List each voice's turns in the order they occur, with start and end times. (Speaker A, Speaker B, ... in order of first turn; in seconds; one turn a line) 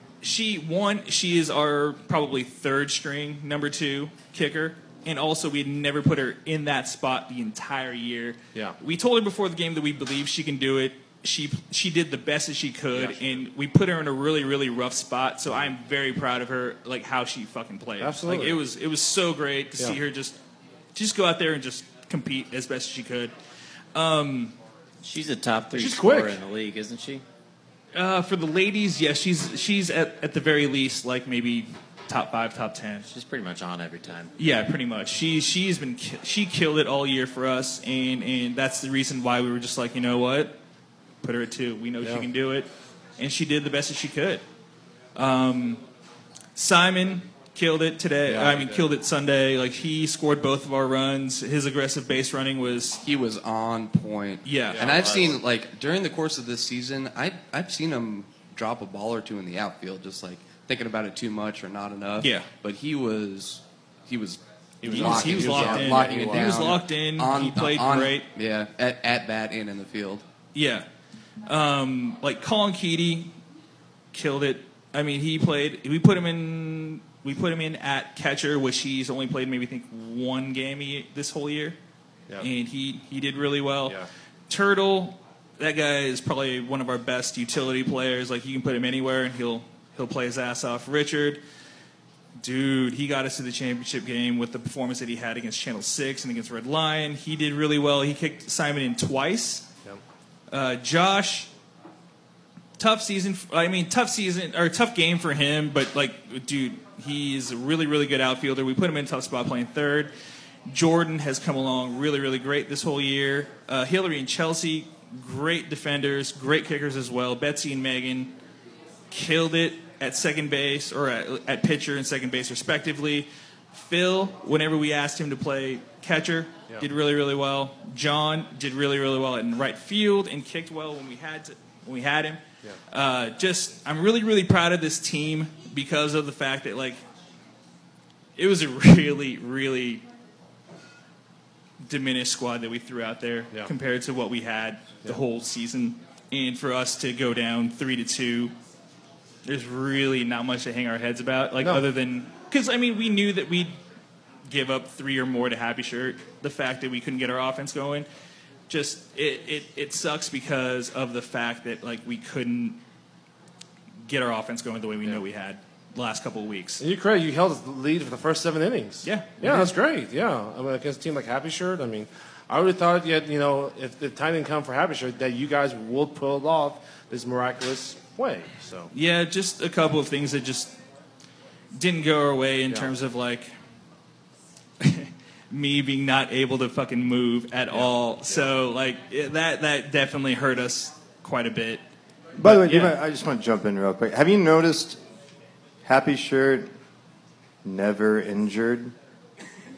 Speaker A: 0.2-20.4
Speaker B: 18.0-18.6
Speaker A: 20.9-23.3
Speaker A: 23.9-24.6
Speaker C: 25.0-27.2
Speaker B: 25.7-26.4
Speaker A: 27.9-33.1
Speaker C: 33.1-34.3
Speaker A: 34.4-40.5
Speaker A: 41.2-44.4
Speaker A: 45.1-45.8
Speaker A: 46.5-53.0
Speaker B: 48.3-48.9
Speaker D: 53.0-70.2
Speaker A: 54.4-54.9
Speaker B: 54.7-55.2
Speaker C: 54.8-55.4
Speaker A: 62.2-62.5
Speaker B: 64.8-66.7
Speaker A: 64.9-68.2
Speaker A: 70.5-70.8
Speaker A: 71.5-73.3
Speaker A: 74.1-81.8
Speaker A: 82.4-91.4
Speaker A: 92.4-99.7
Speaker A: 100.5-101.5
Speaker A: 102.8-110.1
Speaker A: 110.7-118.3
Speaker A: 119.1-137.0
Speaker A: 138.3-140.0
Speaker A: 141.8-148.5
Speaker A: 149.4-153.7
Speaker A: 154.5-158.1
Speaker A: 158.7-162.8
Speaker A: 164.0-166.8
Speaker B: 166.8-178.9
Speaker A: 169.0-169.7
Speaker A: 178.9-180.7
Speaker A: 181.7-183.5
Speaker A: 184.8-191.8
Speaker B: 187.7-188.5
Speaker E: 192.3-195.0
Speaker A: 192.4-192.9
Speaker E: 195.8-196.7
Speaker E: 197.6-198.9